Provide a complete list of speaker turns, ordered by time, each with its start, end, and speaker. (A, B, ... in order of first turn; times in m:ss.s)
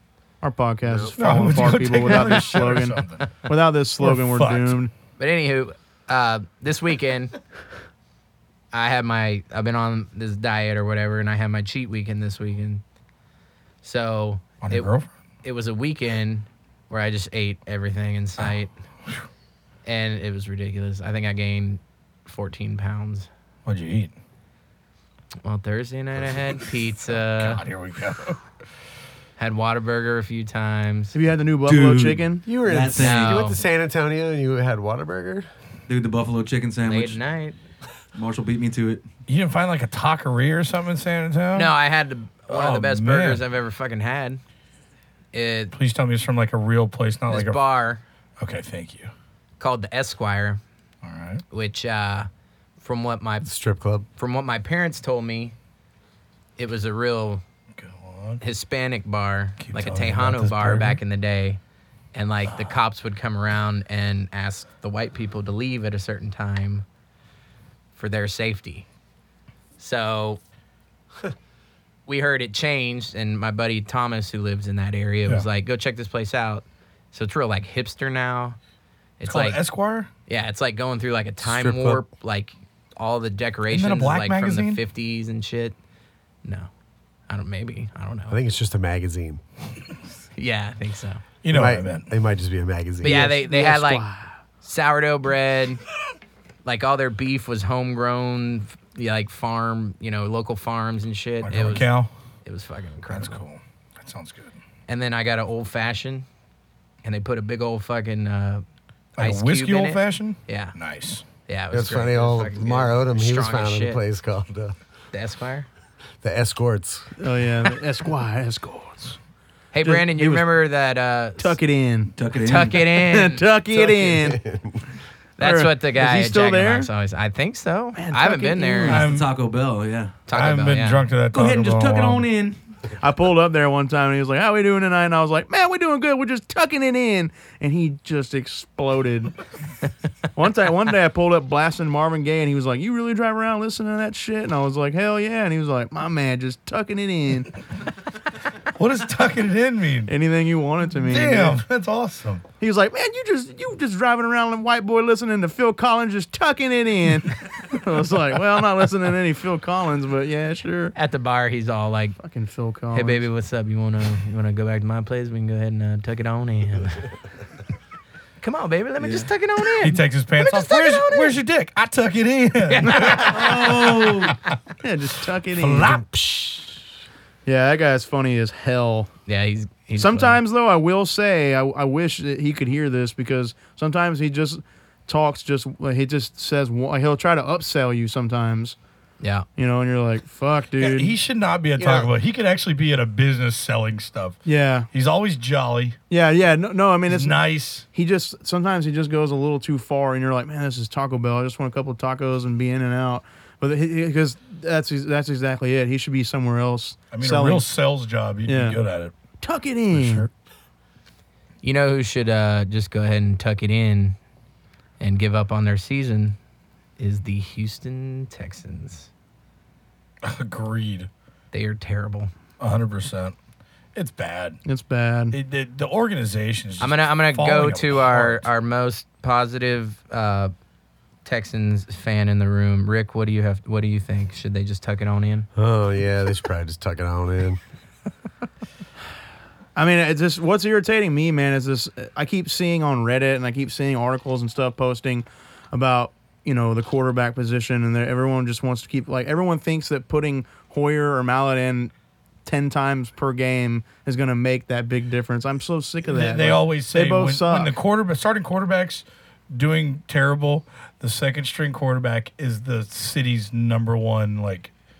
0:00.4-0:04.9 A
0:00.8-0:01.1 B
0:01.2-0:04.8 C
0:02.1-0:02.6 D
0:05.2-0:07.3 D
0:08.7-0:12.8 D
0:13.8-0:14.9 D
0:14.6-0:15.1 C
0:15.4-0:18.7 D
0:19.8-0:23.3 D
0:23.6-0:24.1 C
0:25.4-0:27.6 D
0:27.1-0:28.4 C
0:29.4-0:31.1 D
0:31.1-0:32.4 A
0:31.6-0:33.4 E
0:32.5-0:35.5 B
0:33.0-0:33.6 D
0:35.9-0:37.2 E
0:36.8-0:37.6 D
0:38.1-0:39.0 E
0:39.3-0:41.7 C
0:41.5-0:44.4 D
0:42.5-0:43.4 C
0:45.3-0:45.7 D
0:45.7-0:47.6 C
0:47.3-0:48.0 D
0:48.4-0:49.1 C
0:49.6-0:50.6 D
0:51.0-0:51.4 C
0:51.5-0:52.3 D
0:52.8-0:53.5 D
0:53.4-0:54.1 B
0:54.2-0:55.5 D
0:56.6-0:57.4 D
0:57.7-0:58.4 C
0:58.4-1:01.6 D
0:59.6-1:01.0 C
1:02.1-1:06.8 D
1:08.0-1:08.9 D
1:09.8-1:10.4 D
1:12.1-1:18.6 D
1:19.2-1:19.6 D
1:19.3-1:20.1 C
1:20.3-1:25.8 D
1:21.5-1:21.9 C
1:23.7-1:24.8 C
1:26.4-1:26.7 D
1:27.3-1:28.4 D
1:28.3-1:29.4 B
1:30.4-1:31.2 D
1:31.4-1:32.1 C
1:31.5-1:33.4 B
1:33.0-1:34.0 D
1:33.0-1:34.4 A
1:34.6-1:35.8 D
1:36.6-1:41.9 D
1:41.4-1:42.1 C
1:42.4-1:43.4 D
1:43.1-1:44.5 C
1:44.9-1:46.2 D
1:47.0-1:48.6 D
1:49.2-1:51.2 C
1:49.2-1:50.7 D
1:51.5-1:54.0 D
1:51.7-1:54.7 B
1:55.1-1:55.7 D
1:56.2-1:57.1 B
1:57.2-1:59.2 A
1:59.7-2:01.6 D
1:59.8-2:00.4 A
2:01.4-2:02.1 A
2:02.2-2:02.8 E
2:02.4-2:03.4 D
2:02.8-2:04.4 A
2:03.7-2:04.8 B
2:05.4-2:09.1 D
2:05.4-2:06.9 A
2:07.9-2:09.0 A
2:08.9-2:10.2 E
2:08.9-2:09.3 C
2:10.3-2:11.0 D
2:10.3-2:12.2 C
2:11.3-2:12.6 E
2:13.0-2:19.3 A
2:20.3-2:27.6 A
2:28.8-2:30.1 C
2:30.1-2:31.6 A
2:31.0-2:32.4 C
2:32.6-2:40.9 A
2:40.9-2:42.2 D
2:42.2-2:43.2 A
2:42.9-2:47.1 D
2:48.4-2:51.4 D
2:49.8-2:54.4 C
2:52.6-2:53.7 D
2:52.9-2:53.9 A
2:53.2-2:54.4 E
2:54.8-2:56.0 A
2:55.5-2:56.4 C
2:57.4-2:59.1 A
2:59.3-3:00.4 D
3:00.0-3:08.8 A
3:09.2-3:09.4 D
3:09.6-3:11.1 A
3:10.8-3:16.0 C
3:11.8-3:12.0 A
3:14.4-3:14.9 A
3:16.1-3:17.4 A
3:17.1-3:17.8 C
3:17.9-3:27.6 A
3:27.1-3:29.1 C
3:28.4-3:28.8 A
3:29.4-3:30.3 A
3:29.9-3:30.3 C
3:31.6-3:34.2 D
3:35.0-3:36.4 D
3:37.0-3:39.1 D
3:40.2-3:41.1 C
3:41.5-3:42.3 D
3:42.6-3:43.3 C
3:43.9-3:44.6 C
3:44.6-3:45.4 A
3:45.3-3:48.4 C
3:46.8-3:50.5 D
3:51.2-3:55.5 D
3:55.5-3:57.6 B
3:59.7-4:11.9 A
4:12.4-4:17.8 A
4:16.0-4:24.7 C